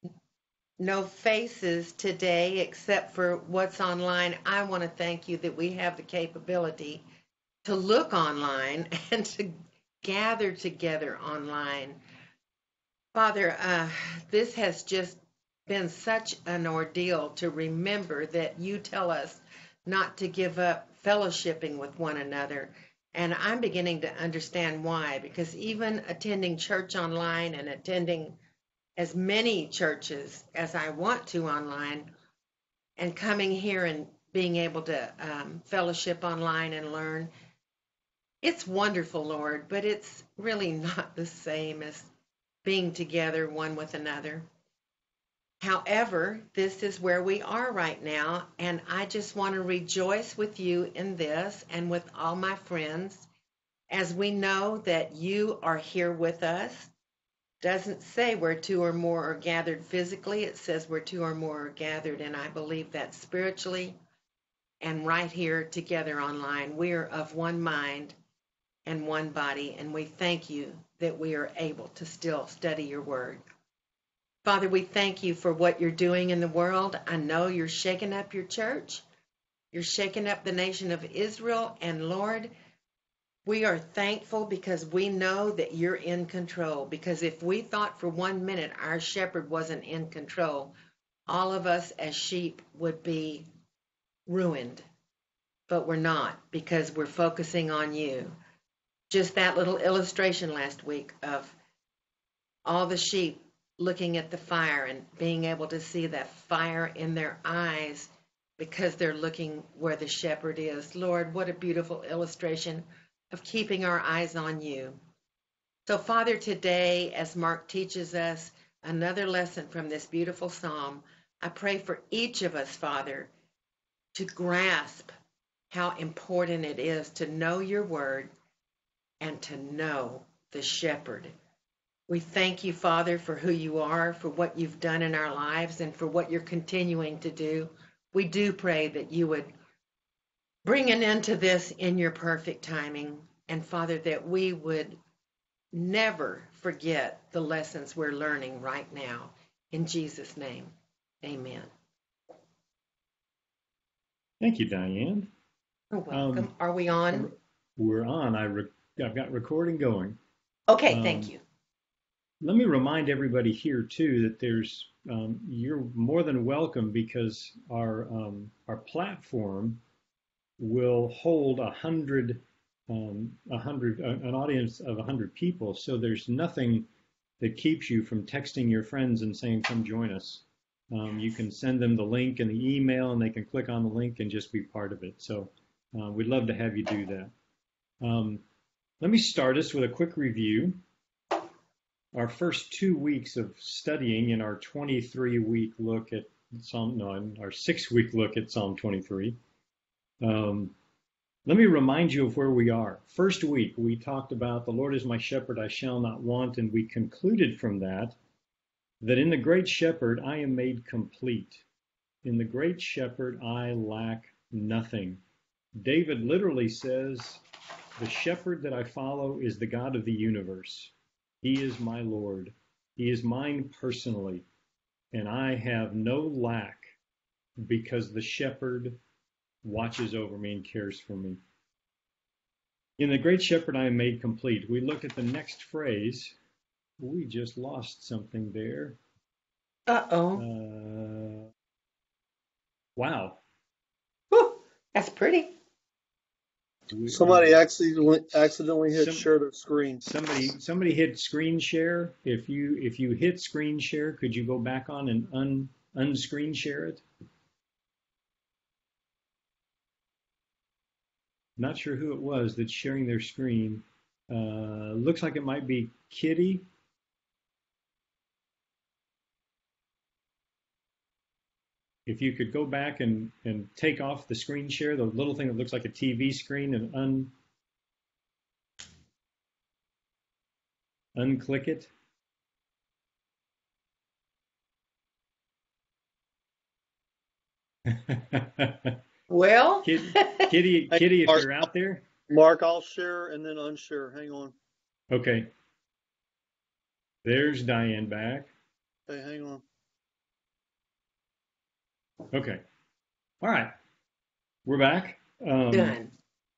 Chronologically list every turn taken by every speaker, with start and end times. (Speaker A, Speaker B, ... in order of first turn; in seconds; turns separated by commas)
Speaker A: 0.8-7.0, Speaker A: 7.6-12.0, Speaker A: 13.1-28.4, Speaker A: 29.0-32.1, Speaker A: 33.0-37.3, Speaker A: 38.4-42.1, Speaker A: 42.6-44.5, Speaker A: 45.6-53.2, Speaker A: 53.9-56.9, Speaker A: 57.6-64.0, Speaker A: 64.8-68.1, Speaker A: 68.8-73.4, Speaker A: 74.4-79.0, Speaker A: 79.7-82.5, Speaker A: 83.5-90.7, Speaker A: 91.3-93.5, Speaker A: 94.3-94.8, Speaker A: 95.7-98.3, Speaker A: 99.1-101.5, Speaker A: 102.6-115.0, Speaker A: 115.8-123.3, Speaker A: 124.1-125.1, Speaker A: 125.7-128.3, Speaker A: 129.2-131.3, Speaker A: 132.1-139.5, Speaker A: 140.6-145.0, Speaker A: 145.7-150.7, Speaker A: 151.2-151.7, Speaker B: 154.4-155.3, Speaker A: 155.9-157.3, Speaker B: 156.1-156.5, Speaker B: 157.1-160.2, Speaker A: 160.7-161.4, Speaker B: 160.8-161.3, Speaker B: 162.4-169.8, Speaker B: 170.6-176.9, Speaker B: 177.4-187.3, Speaker B: 188.0-188.4, Speaker B: 189.0-190.8, Speaker B: 192.1-199.4, Speaker B: 200.2-200.8, Speaker B: 201.4-208.2, Speaker B: 209.0-211.6, Speaker B: 212.2-215.2, Speaker B: 215.7-217.4, Speaker B: 217.9-224.4, Speaker B: 225.1-226.9, Speaker B: 227.6-229.0, Speaker B: 229.6-231.4, Speaker B: 233.0-236.3, Speaker B: 237.0-239.0, Speaker A: 239.9-240.4, Speaker B: 240.3-241.5, Speaker B: 242.9-243.4, Speaker A: 244.3-245.5, Speaker B: 246.9-247.6, Speaker C: 247.1-250.1, Speaker B: 248.9-249.3, Speaker B: 250.0-257.0, Speaker B: 261.6-266.7, Speaker B: 272.1-277.3, Speaker B: 281.1-281.9, Speaker B: 287.9-289.0, Speaker A: 289.3-290.5, Speaker B: 289.8-292.1, Speaker C: 290.9-291.5, Speaker C: 292.3-294.5, Speaker B: 295.1-295.5, Speaker B: 297.2-298.5, Speaker C: 299.1-299.6, Speaker B: 302.3-302.6, Speaker B: 303.4-303.7, Speaker B: 304.6-306.0, Speaker A: 305.7-306.1